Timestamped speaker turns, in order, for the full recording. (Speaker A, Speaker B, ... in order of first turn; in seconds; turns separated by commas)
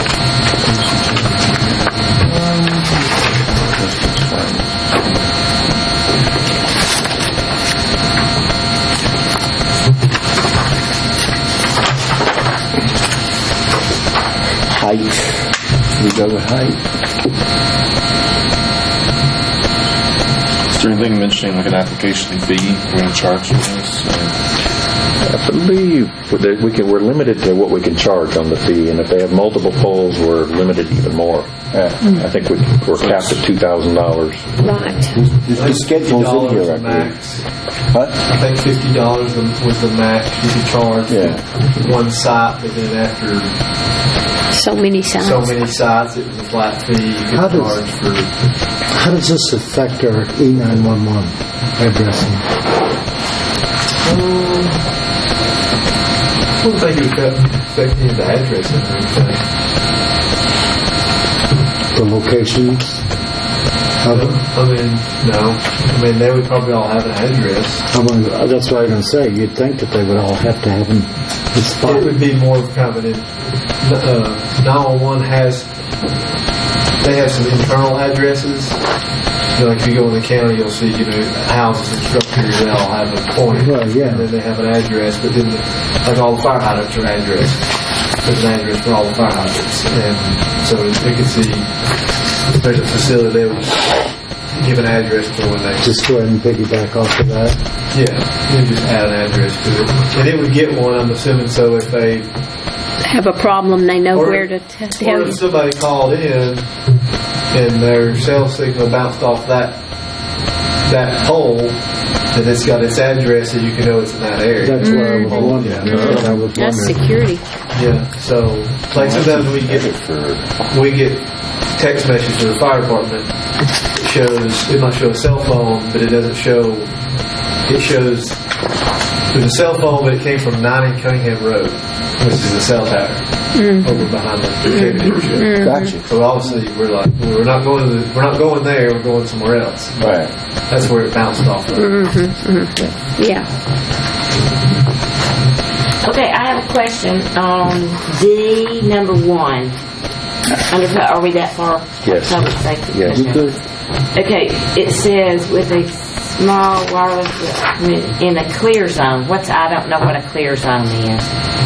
Speaker A: 0.7-1.4, Speaker A: 4.2-4.6, Speaker B: 14.7-16.8, Speaker A: 20.7-24.4, Speaker C: 25.2-34.5, Speaker B: 31.7-32.0, Speaker A: 32.9-33.4, Speaker D: 34.6-35.2, Speaker B: 35.1-37.1, Speaker E: 35.5-37.4, Speaker E: 38.2-43.5, Speaker B: 41.1-41.4, Speaker D: 44.5-45.6, Speaker E: 45.2-48.3, Speaker F: 47.3-47.8, Speaker F: 48.9-52.4, Speaker E: 54.0-54.8, Speaker E: 56.6-59.4, Speaker F: 61.9-63.0, Speaker F: 64.0-64.4, Speaker E: 64.1-67.8, Speaker F: 67.9-72.1, Speaker E: 71.8-73.3, Speaker E: 73.8-75.7, Speaker E: 77.0-78.8, Speaker E: 79.5-87.7, Speaker F: 83.5-84.3, Speaker E: 88.2-91.7, Speaker E: 92.5-94.0, Speaker E: 94.5-95.9, Speaker F: 95.8-97.6, Speaker E: 97.9-102.3, Speaker D: 103.0-105.4, Speaker E: 104.1-106.7, Speaker E: 107.5-109.8, Speaker E: 110.8-111.8, Speaker E: 112.3-116.2, Speaker F: 114.6-117.0, Speaker D: 114.8-117.4, Speaker E: 117.7-119.9, Speaker B: 118.9-120.5, Speaker E: 120.7-123.3, Speaker E: 124.0-126.9, Speaker E: 127.7-128.4, Speaker E: 129.3-142.1, Speaker D: 133.5-134.0, Speaker D: 135.3-135.9, Speaker B: 135.5-136.4, Speaker B: 140.0-140.3, Speaker D: 141.8-143.5, Speaker G: 146.0-149.8, Speaker G: 150.6-153.6, Speaker C: 152.0-153.4, Speaker G: 154.1-161.3